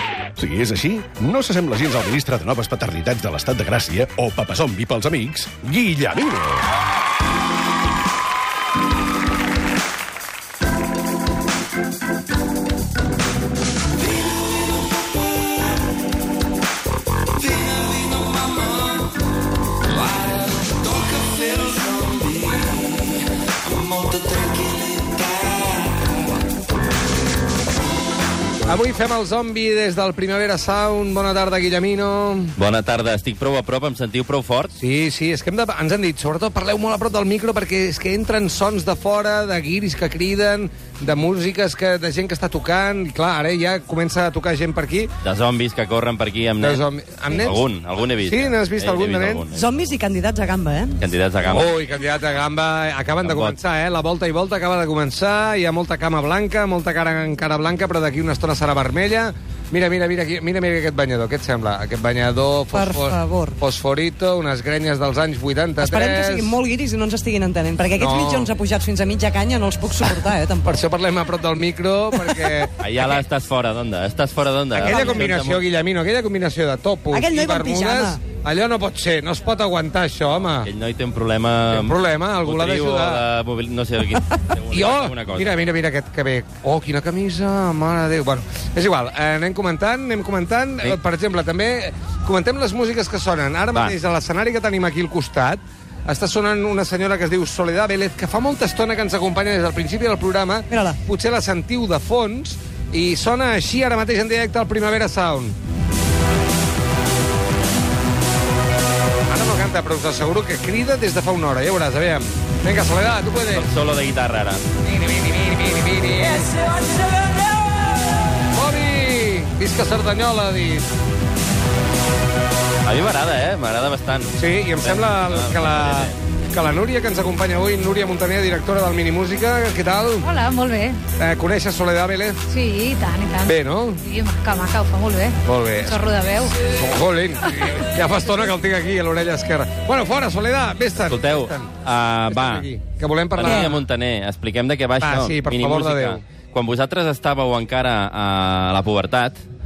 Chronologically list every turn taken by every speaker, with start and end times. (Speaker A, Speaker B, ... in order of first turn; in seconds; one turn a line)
Speaker A: 0.4-6.7
Speaker B: 28.6-32.5
Speaker C: 32.6-34.7
Speaker B: 34.8-45.1
Speaker C: 45.2-49.9
Speaker B: 46.6-47.6
Speaker B: 48.2-49.5
Speaker D: 49.5-51.0
Speaker C: 51.0-51.7
Speaker B: 51.5-66.5
Speaker C: 53.2-53.5
Speaker D: 62.7-63.6
Speaker D: 65.8-70.8
Speaker B: 67.9-68.5
Speaker B: 70.6-73.2
Speaker C: 72.8-75.6
Speaker B: 74.7-80.7
Speaker D: 77.1-78.2
Speaker C: 80.6-85.6
Speaker B: 81.7-83.2
Speaker B: 84.7-105.5
Speaker D: 100.7-101.0
Speaker B: 109.3-113.7
Speaker C: 113.5-114.6
Speaker B: 114.8-116.6
Speaker B: 118.5-120.9
Speaker C: 122.8-126.2
Speaker B: 124.4-130.2
Speaker E: 130.2-131.0
Speaker B: 131.2-132.4
Speaker E: 132.5-136.6
Speaker B: 133.4-134.0
Speaker B: 135.4-136.1
Speaker B: 136.6-141.8
Speaker C: 141.1-142.7
Speaker B: 142.3-143.8
Speaker C: 143.3-149.3
Speaker B: 145.0-146.2